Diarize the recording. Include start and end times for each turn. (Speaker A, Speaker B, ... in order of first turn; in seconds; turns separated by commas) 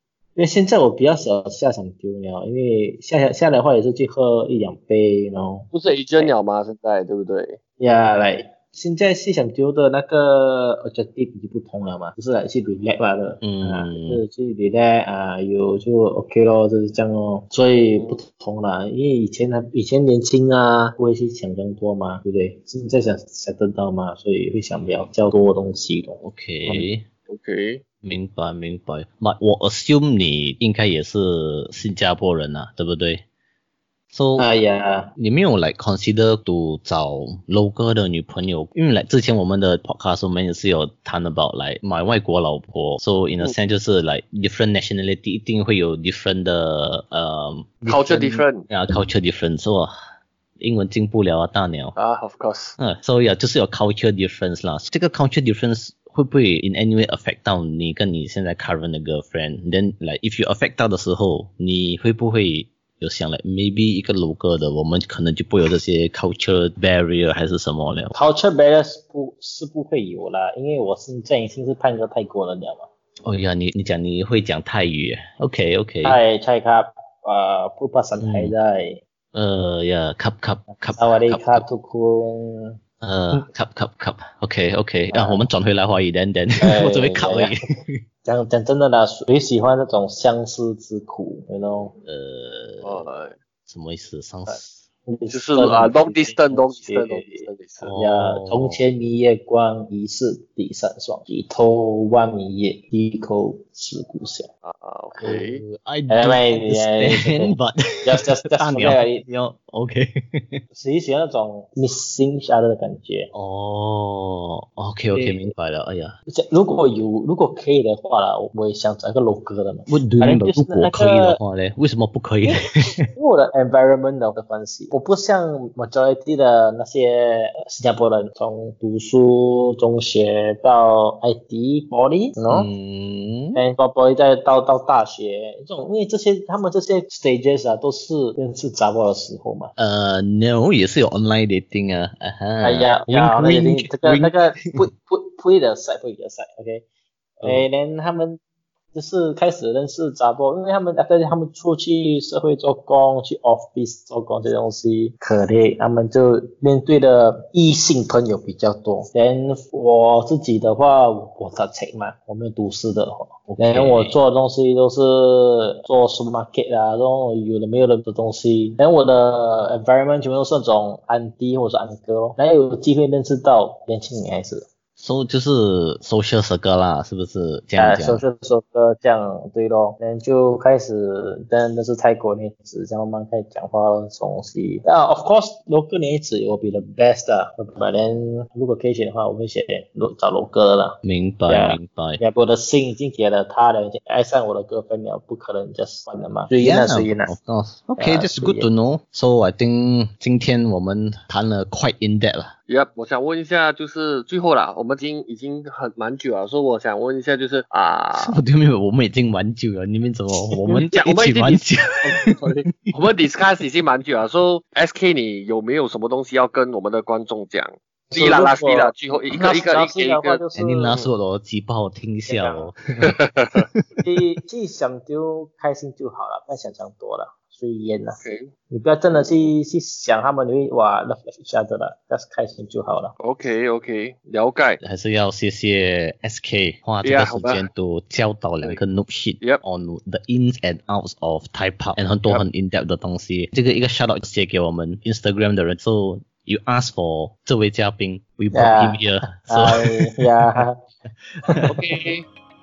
Speaker A: 0.3-6.3, Speaker B: 5.7-7.6, Speaker A: 7.8-26.8, Speaker C: 13.4-14.2, Speaker C: 26.2-27.0, Speaker B: 27.3-27.8, Speaker C: 28.0-33.2, Speaker C: 34.1-34.5, Speaker A: 34.4-35.1, Speaker C: 35.2-49.9, Speaker B: 47.9-48.7, Speaker C: 50.6-51.9, Speaker B: 52.0-52.8, Speaker C: 52.8-68.1, Speaker A: 68.1-72.9, Speaker C: 73.2-76.2, Speaker A: 76.0-79.0, Speaker C: 78.2-78.5, Speaker C: 79.3-81.6, Speaker A: 80.8-82.8, Speaker C: 83.0-88.0, Speaker A: 85.1-85.4, Speaker A: 86.6-87.5, Speaker A: 88.2-91.9, Speaker C: 92.0-93.0, Speaker B: 92.8-93.3, Speaker C: 93.7-94.8, Speaker A: 94.5-104.5, Speaker B: 95.3-97.9, Speaker C: 97.8-98.8, Speaker B: 104.6-105.6, Speaker C: 105.2-110.6, Speaker A: 106.1-109.2, Speaker A: 110.7-113.3, Speaker C: 113.3-116.1, Speaker A: 115.1-115.5, Speaker A: 116.3-121.4, Speaker C: 119.9-123.1, Speaker A: 123.1-132.7, Speaker C: 132.5-133.6, Speaker A: 133.5-139.7, Speaker C: 139.8-144.8, Speaker A: 142.6-146.8, Speaker A: 147.4-148.4, Speaker A: 148.9-174.7, Speaker C: 163.5-164.1, Speaker C: 175.0-178.2, Speaker A: 177.8-197.3, Speaker C: 191.0-192.2, Speaker C: 196.6-202.5, Speaker A: 198.0-198.7, Speaker B: 202.7-208.4, Speaker C: 208.1-212.9, Speaker B: 210.8-221.1, Speaker A: 218.1-220.9, Speaker C: 220.6-224.0, Speaker A: 222.3-222.7, Speaker B: 223.0-223.7, Speaker A: 224.0-228.2, Speaker B: 228.2-228.5, Speaker A: 228.7-233.1, Speaker B: 233.2-234.8, Speaker C: 234.8-250.6, Speaker B: 237.0-237.6, Speaker A: 248.5-250.8, Speaker C: 251.4-251.8, Speaker B: 251.7-252.2